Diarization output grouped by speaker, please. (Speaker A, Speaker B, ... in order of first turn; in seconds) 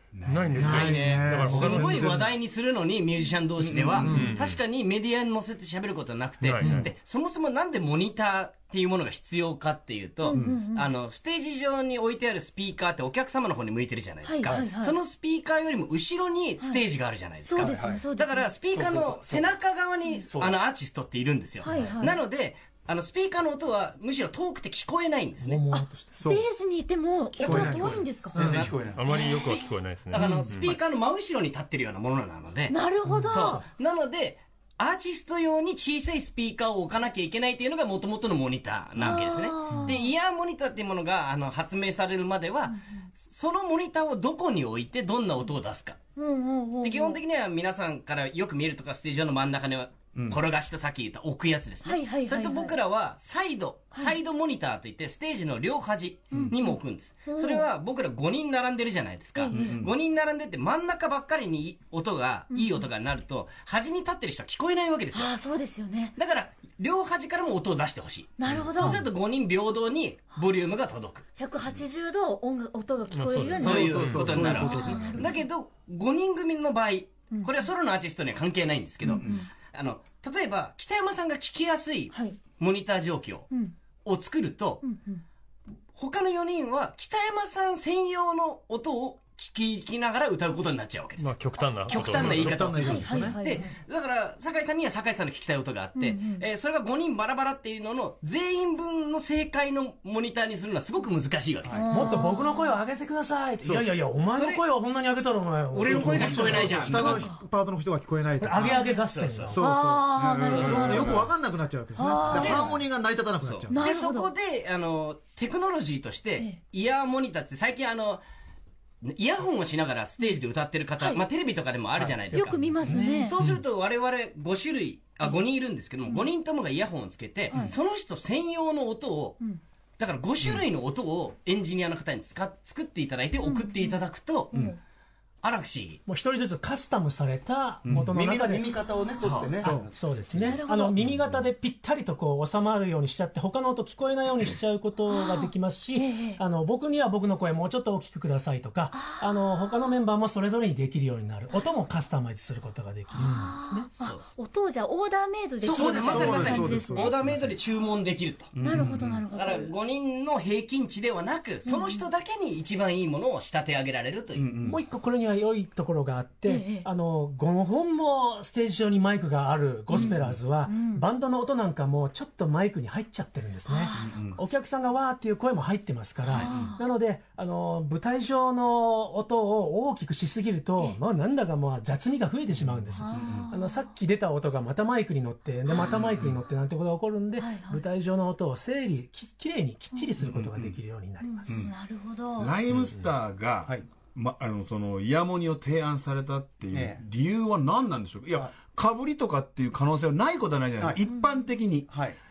Speaker A: 0.1-1.1, 192.3-201.9
Speaker B: 0.2-2.2, 4.0-4.6, 6.4-6.7, 28.9-30.8, 73.1-74.5, 91.2-93.2, 192.7-193.0
Speaker C: 0.6-2.3, 4.0-4.3, 26.1-26.5, 27.4-28.2, 74.0-75.0, 92.0-93.4, 106.4-108.8, 109.5-113.8, 153.2-153.5, 155.9-157.3
Speaker D: 0.6-25.6, 28.3-28.8, 30.1-46.0, 46.8-65.3, 66.2-71.2, 73.5-83.5, 84.0-84.8, 86.0-102.2, 104.3-104.6, 105.7-107.2, 109.1-109.5, 110.5-111.2, 112.3-112.7, 113.4-118.2, 119.0-129.4, 130.0-134.5, 135.4-136.0, 139.2-139.6, 154.0-154.3, 155.6-158.8, 159.3-164.5
Speaker E: 3.6-4.2, 6.6-6.9, 10.3-10.6, 17.6-18.0, 18.7-19.6, 20.3-20.6, 27.3-29.1, 50.1-50.4, 59.5-59.9, 74.1-75.2, 101.7-102.1, 106.2-107.0, 110.1-111.3, 122.0-122.6, 137.8-140.6, 158.5-159.2, 164.3-164.8, 169.9-170.4, 173.9-174.4, 176.4-176.7, 182.6-183.5, 185.8-186.4, 190.2-190.8, 191.5-191.7, 196.7-197.0, 201.9-202.2
Speaker F: 10.2-10.9, 14.2-14.9, 17.4-18.6, 21.6-22.2, 26.2-29.7, 32.7-33.6, 39.0-40.0, 46.2-47.2, 51.8-52.8, 56.3-56.7, 57.2-57.6, 59.4-59.8, 62.5-62.9, 65.1-66.1, 68.4-69.1, 71.4-75.4, 77.3-77.6, 79.0-79.5, 82.1-82.4, 84.8-85.2, 92.8-93.7, 95.9-96.4, 101.7-102.7, 106.9-107.4, 108.6-109.0, 109.6-111.2, 111.9-112.7, 113.7-114.3, 121.0-121.2, 122.3-123.4, 127.5-127.8, 133.4-134.8, 138.9-139.5, 140.4-141.0, 145.1-146.4, 148.9-149.8, 153.2-157.1, 158.6-159.7, 161.7-162.0, 166.4-166.9, 169.9-171.1, 173.7-174.3, 176.3-176.8, 182.9-183.9, 185.7-186.0, 187.4-187.8, 191.2-192.6, 201.1-201.4
Speaker G: 25.4-26.2, 101.9-106.9, 108.4-109.6, 122.4-123.3, 136.1-138.7, 139.6-153.9, 164.6-191.7